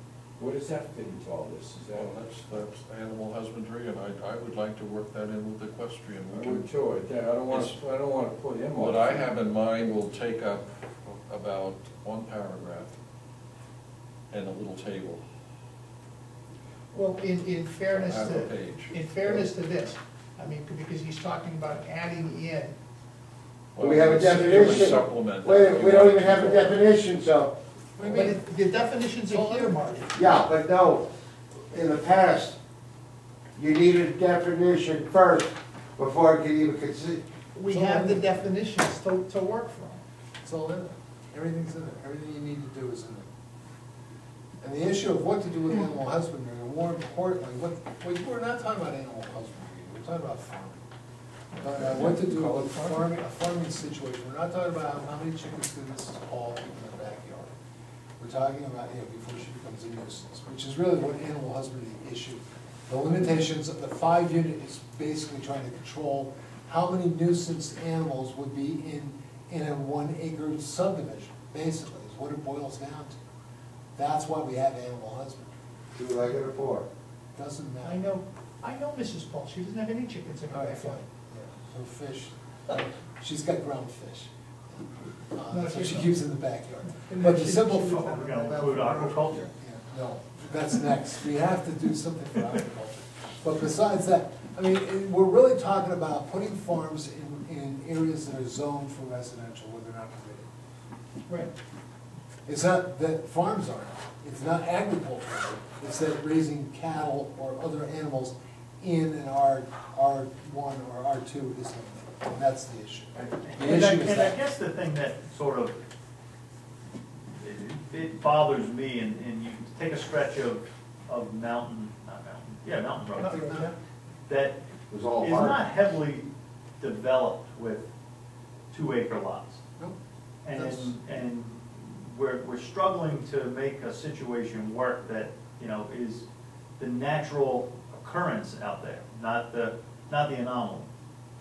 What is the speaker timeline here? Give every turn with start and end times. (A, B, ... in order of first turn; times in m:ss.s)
0:00.4-0:02.1 A
0:01.9-0:06.7 B
0:06.4-0:09.3 A
0:07.4-0:07.8 B
0:08.8-0:13.0 B
0:14.3-0:15.2 B
0:16.9-0:22.8 C
0:17.9-0:19.4 B
0:23.8-0:26.8 B
0:23.8-0:27.6 D
0:28.0-0:28.4 E
0:28.0-0:30.2 C
0:29.3-0:29.8 E
0:30.2-0:31.1 D
0:31.7-0:32.6 D
0:33.6-0:37.2 D
0:37.6-0:40.0 C
0:37.7-0:38.3 E
0:40.4-0:43.3 E
0:44.6-0:50.8 E
0:51.6-0:57.5 E
0:51.6-0:53.1 B
0:58.2-1:13.2 E
1:14.0-1:15.5 E
1:16.0-1:16.9 D
1:17.4-1:18.0 E
1:17.8-1:21.0 C
1:20.5-1:40.5 E
1:25.5-1:26.1 C
1:26.9-1:28.7 C
1:28.0-1:29.5 F
1:42.5-1:54.4 E
1:53.2-1:55.8 F
1:57.4-2:03.6 F
2:03.2-2:03.7 C
2:03.2-2:03.7 E
2:04.3-2:04.6 F
2:04.9-2:05.6 D
2:05.2-2:06.3 F
2:06.8-2:07.9 F
2:08.7-2:09.6 F
2:10.4-2:16.3 F
2:10.5-2:11.0 E
2:16.8-2:20.9 F